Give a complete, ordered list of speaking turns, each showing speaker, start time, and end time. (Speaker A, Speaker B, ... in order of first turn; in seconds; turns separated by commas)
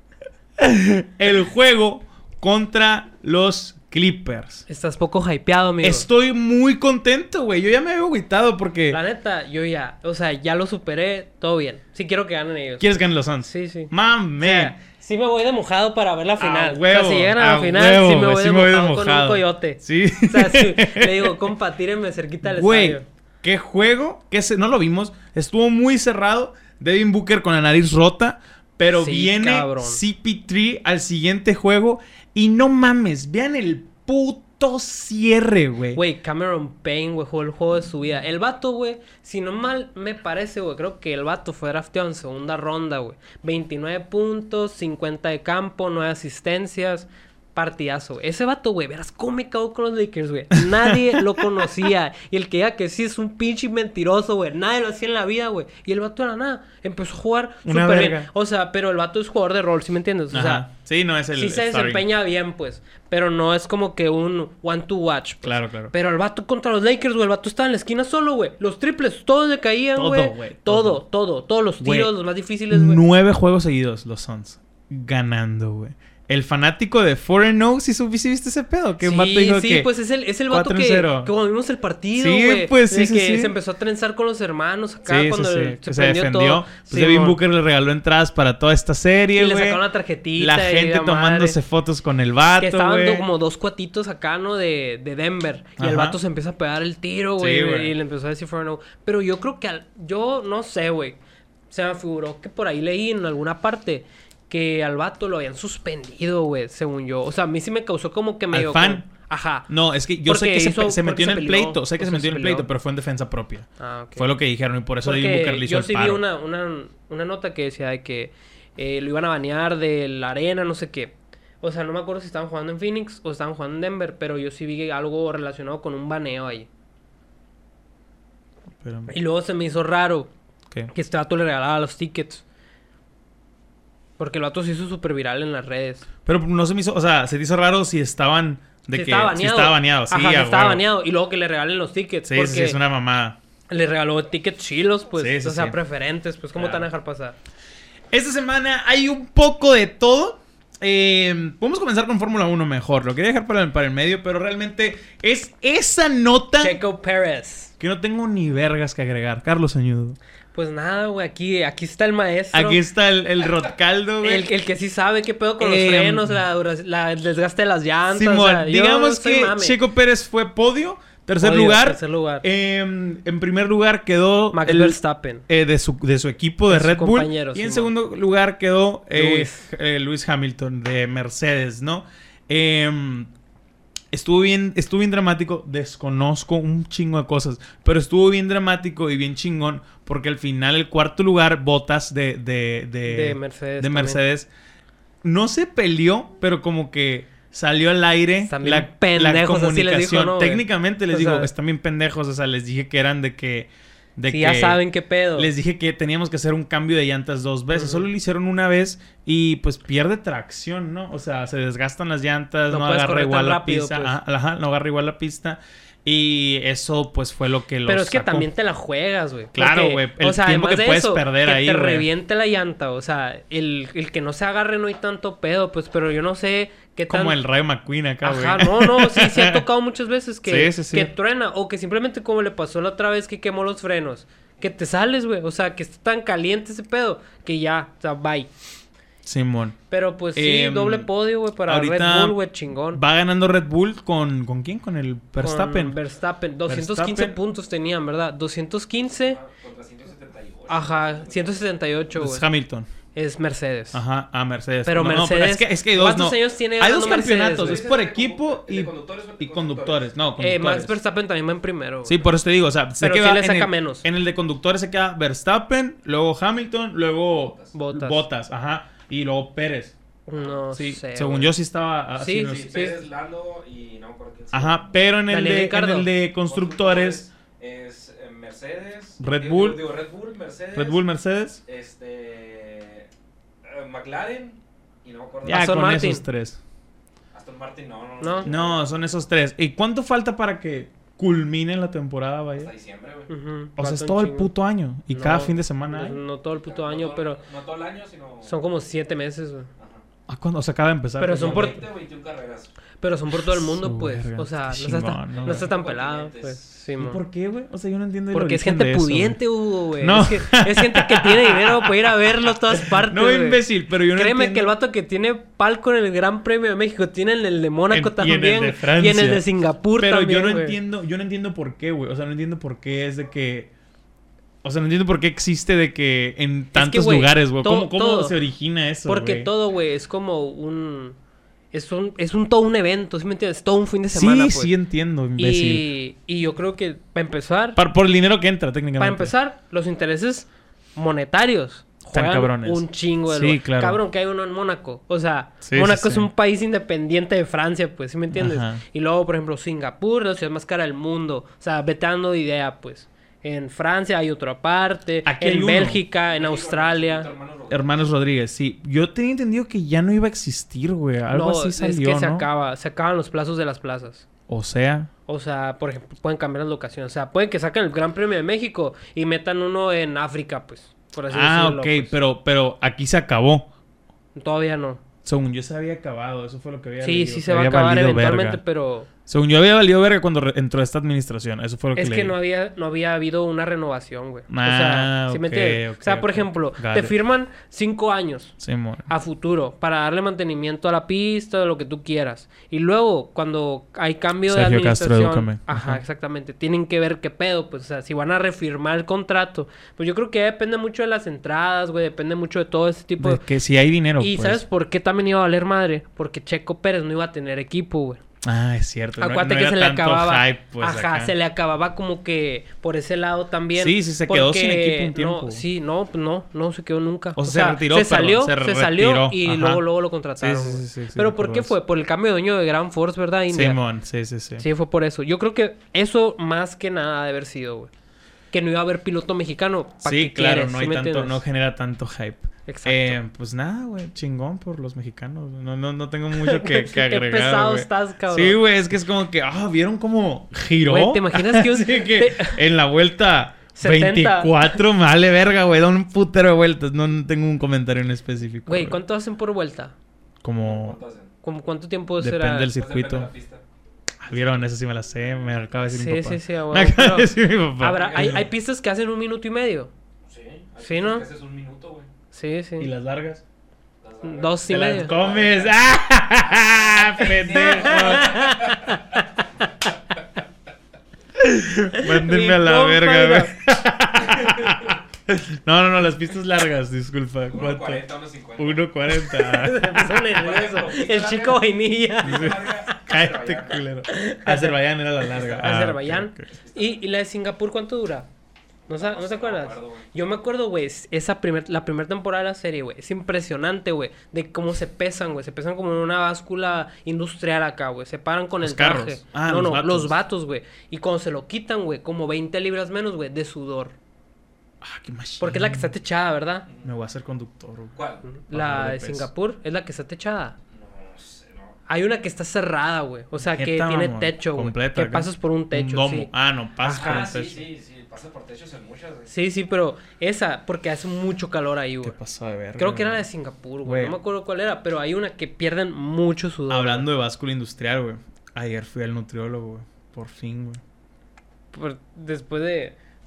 Speaker A: 0.6-4.7, Speaker B: 4.7-6.1, Speaker A: 5.8-9.0, Speaker B: 8.9-23.0, Speaker A: 12.8-14.7, Speaker A: 16.4-21.3, Speaker A: 22.4-36.0, Speaker B: 28.9-30.0, Speaker B: 35.9-60.6, Speaker A: 50.6-51.4, Speaker A: 57.6-58.3, Speaker A: 60.3-62.0, Speaker B: 61.4-73.0, Speaker A: 65.4-65.9, Speaker A: 70.0-71.0, Speaker A: 71.8-72.1, Speaker A: 72.7-79.9, Speaker B: 79.0-87.4, Speaker A: 80.5-81.3, Speaker A: 82.2-83.5, Speaker A: 85.1-89.8, Speaker B: 89.4-91.6, Speaker A: 90.4-93.3, Speaker B: 92.6-101.2, Speaker A: 95.8-96.2, Speaker A: 97.4-97.9, Speaker B: 101.7-109.7, Speaker A: 108.5-109.0, Speaker A: 109.7-116.2, Speaker B: 110.2-112.7, Speaker B: 113.8-114.3, Speaker B: 115.0-126.7, Speaker A: 128.8-129.1, Speaker B: 129.1-130.3, Speaker B: 130.9-132.4, Speaker B: 134.2-136.0, Speaker A: 136.2-140.8, Speaker B: 138.9-142.8, Speaker A: 142.2-143.4, Speaker B: 143.7-147.3, Speaker A: 145.2-145.8, Speaker A: 146.6-146.9, Speaker A: 148.1-156.8, Speaker B: 156.6-157.7, Speaker A: 157.8-160.2, Speaker B: 160.5-162.8, Speaker A: 162.5-164.4, Speaker B: 164.2-169.8, Speaker A: 165.6-166.4, Speaker A: 168.1-183.3, Speaker B: 171.4-172.4, Speaker B: 174.5-175.4, Speaker B: 176.7-177.9, Speaker B: 179.1-179.7, Speaker A: 184.1-194.5, Speaker B: 193.1-194.2, Speaker A: 195.2-204.8, Speaker B: 198.5-201.5, Speaker B: 204.3-205.5, Speaker A: 205.3-218.5, Speaker B: 207.7-208.0, Speaker B: 212.7-214.1, Speaker B: 217.8-227.4, Speaker A: 219.5-222.1, Speaker A: 227.1-229.6, Speaker B: 228.2-238.5, Speaker A: 230.4-231.1, Speaker A: 239.2-239.8, Speaker B: 239.9-243.0, Speaker A: 240.3-241.1, Speaker A: 241.6-242.4, Speaker A: 242.9-246.0, Speaker B: 245.4-249.4, Speaker A: 246.7-247.4, Speaker C: 249.0-251.6, Speaker B: 250.7-252.5, Speaker A: 252.1-252.9, Speaker B: 253.1-254.0, Speaker A: 253.9-261.0, Speaker B: 254.8-257.9, Speaker C: 257.1-260.3, Speaker B: 260.4-262.3, Speaker A: 262.1-269.9, Speaker B: 263.0-264.0, Speaker C: 267.3-267.7, Speaker B: 267.7-268.2, Speaker B: 270.3-271.5, Speaker A: 270.7-273.0, Speaker B: 272.2-273.0, Speaker C: 272.4-274.9, Speaker A: 274.5-277.3, Speaker B: 275.3-276.1, Speaker C: 276.5-281.0, Speaker A: 279.2-279.9, Speaker A: 280.7-281.6, Speaker C: 281.6-283.1, Speaker C: 283.6-285.7, Speaker A: 285.4-286.6, Speaker B: 285.5-286.2, Speaker C: 287.3-288.8, Speaker B: 288.2-288.5, Speaker A: 288.4-292.7, Speaker C: 292.5-293.3, Speaker B: 293.3-294.5, Speaker A: 293.8-296.2, Speaker B: 295.1-297.4, Speaker C: 296.5-298.6, Speaker B: 298.4-299.7, Speaker C: 299.8-300.0, Speaker A: 300.3-301.8, Speaker B: 301.2-301.8, Speaker C: 301.3-302.7, Speaker B: 303.0-307.2, Speaker A: 303.5-305.7, Speaker C: 305.3-306.8, Speaker A: 307.0-309.4, Speaker B: 308.3-320.8, Speaker A: 310.0-314.7, Speaker A: 317.9-319.4, Speaker A: 320.0-323.7, Speaker A: 324.6-329.5, Speaker B: 326.7-328.4, Speaker B: 329.1-331.1, Speaker B: 331.7-334.7, Speaker A: 334.1-335.9, Speaker B: 335.4-337.8, Speaker A: 337.8-339.3, Speaker B: 339.0-357.3, Speaker A: 342.1-344.0, Speaker A: 345.6-346.3, Speaker A: 348.3-348.8, Speaker A: 355.2-356.0, Speaker C: 356.3-358.1, Speaker A: 357.7-362.4, Speaker B: 361.3-364.2, Speaker A: 364.5-365.1, Speaker B: 365.3-372.1, Speaker A: 371.3-373.7, Speaker B: 374.3-375.0, Speaker A: 375.2-378.6, Speaker B: 377.0-379.1, Speaker A: 379.3-382.4, Speaker B: 381.9-388.6, Speaker A: 384.5-387.1, Speaker A: 388.6-389.1, Speaker B: 389.1-403.4, Speaker A: 394.5-396.0, Speaker A: 403.2-404.6, Speaker B: 404.2-408.2, Speaker A: 408.4-411.3, Speaker B: 409.2-423.8, Speaker A: 413.8-415.6, Speaker A: 417.4-419.8, Speaker A: 420.4-421.7, Speaker A: 423.5-424.6, Speaker B: 424.6-427.9, Speaker B: 428.5-431.4, Speaker A: 430.0-449.0, Speaker B: 432.7-433.2, Speaker B: 436.4-438.6, Speaker B: 440.9-442.6, Speaker B: 443.8-444.8, Speaker B: 448.7-449.9, Speaker A: 450.4-451.0, Speaker C: 450.6-451.3, Speaker B: 451.4-452.7, Speaker A: 452.2-453.3, Speaker C: 452.7-453.6, Speaker A: 454.2-458.5, Speaker B: 455.9-459.9, Speaker C: 460.2-462.1, Speaker B: 460.8-461.3, Speaker B: 462.3-462.9, Speaker A: 462.8-463.4, Speaker C: 464.0-465.7, Speaker B: 464.2-465.1, Speaker A: 464.7-468.6, Speaker C: 466.5-469.0, Speaker B: 467.6-468.8, Speaker A: 471.4-480.3, Speaker B: 472.0-473.5, Speaker C: 474.2-475.0, Speaker C: 477.5-478.9, Speaker B: 479.2-482.6, Speaker C: 480.3-483.8, Speaker A: 482.2-486.5, Speaker B: 484.1-484.7, Speaker C: 485.3-485.7, Speaker B: 485.4-488.3, Speaker C: 486.5-487.0, Speaker B: 488.9-503.9, Speaker C: 488.9-490.1, Speaker A: 498.6-500.1, Speaker A: 504.8-505.9, Speaker B: 505.4-506.6, Speaker A: 506.8-507.9, Speaker C: 507.9-508.2, Speaker B: 508.2-510.6, Speaker A: 508.5-509.3, Speaker C: 510.7-511.8, Speaker B: 511.9-516.3, Speaker A: 513.4-517.7, Speaker B: 516.8-517.3, Speaker C: 516.9-519.3, Speaker B: 519.3-522.1, Speaker A: 522.0-523.2, Speaker B: 522.8-527.0, Speaker A: 523.8-524.1, Speaker A: 526.7-530.8, Speaker B: 531.7-532.9